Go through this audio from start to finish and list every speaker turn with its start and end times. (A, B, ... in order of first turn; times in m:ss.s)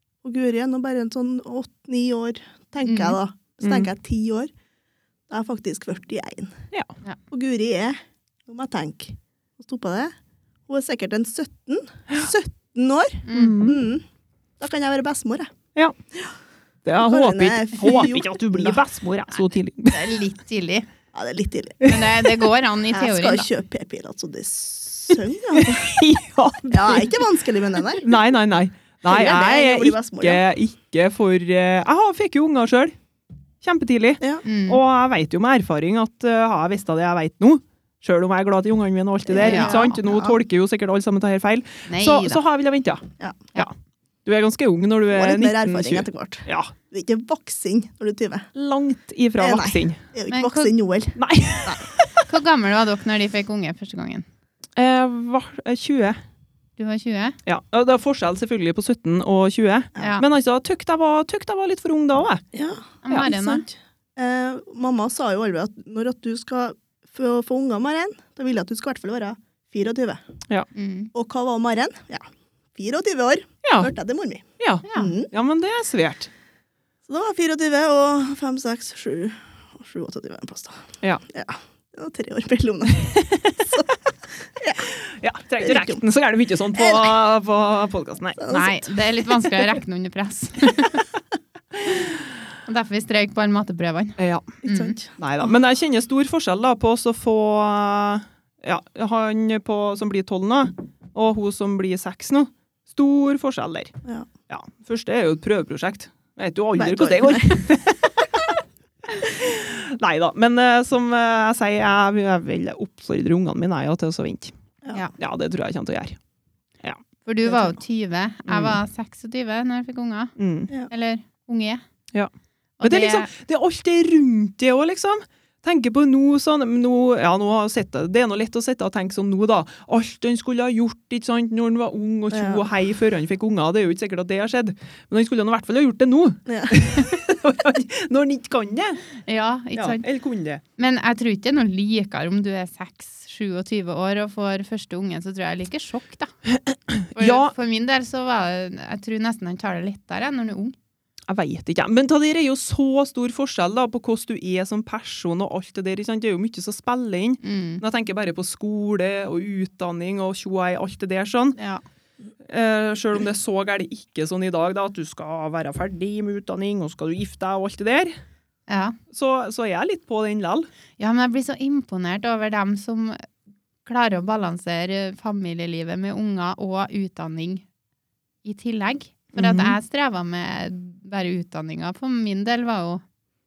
0:00.2-0:04.5 A
0:02.8-0:03.2 B
0:03.6-0:03.9 C
0:05.3-0:06.6 A
0:07.3-0:10.1 A
0:10.7-0:14.0 A
0:13.2-0:13.6 B
0:13.3-0:13.8 C
0:14.6-0:15.5 A
0:16.8-0:20.0 C
0:17.0-0:18.8 A
0:19.3-0:20.8 B
0:21.1-0:21.9 A
0:21.8-0:23.5 B
0:22.9-0:25.9 A
0:25.5-0:27.2 C
0:26.7-0:28.1 A
0:28.0-0:32.9 C
0:29.0-0:30.4 A
0:33.6-0:43.7 C
0:34.4-0:34.8 B
0:39.3-0:40.4 A
0:39.4-0:40.0 B
0:41.9-0:42.4 B
0:43.2-0:43.4 A
0:44.2-0:46.7 C
0:45.1-0:48.5 A
0:48.5-0:50.0 C
0:49.4-0:51.8 A
0:50.3-0:50.7 B
0:51.2-0:52.3 C
0:52.3-0:54.2 B
0:54.8-0:56.2 C
0:56.8-0:57.4 B
0:57.4-1:02.4 C
1:00.0-1:00.2 B
1:02.5-1:10.2 A
1:03.0-1:03.6 B
1:03.1-1:03.4 C
1:10.7-1:11.1 B
1:11.1-1:15.3 A
1:13.6-1:13.9 C
1:14.6-1:16.3 C
1:14.8-1:15.1 B
1:17.0-1:23.9 A
1:23.1-1:23.6 C
1:24.4-1:24.9 A
1:24.8-1:28.4 C
1:25.6-1:26.0 A
1:26.7-1:27.2 A
1:28.4-1:29.4 A
1:28.5-1:31.0 B
1:32.6-1:35.0 B
1:34.2-1:34.6 C
1:34.6-1:35.1 A
1:35.2-1:43.9 C
1:44.5-1:48.5 C
1:46.7-1:47.6 A
1:49.1-1:54.5 C
1:55.2-1:56.2 C
1:57.2-2:00.3 B
1:57.5-1:57.7 A
1:58.5-1:58.8 C
2:00.4-2:00.7 C
2:00.9-2:01.8 B
2:02.8-2:03.3 B
2:02.8-2:19.0 C
2:12.3-2:12.6 A
2:16.4-2:16.8 A
2:19.3-2:20.0 B
2:19.8-2:20.6 C
2:20.8-2:26.3 B
2:26.5-2:27.5 C
2:27.2-2:30.8 B
2:31.3-2:41.6 C
2:37.4-2:37.8 B
2:41.6-2:41.8 B
2:42.5-2:48.2 C
2:48.7-2:49.0 B
2:49.1-2:50.7 C
2:51.0-2:53.3 B
2:53.8-2:57.6 B
2:58.4-3:03.0 B
2:59.3-2:59.8 C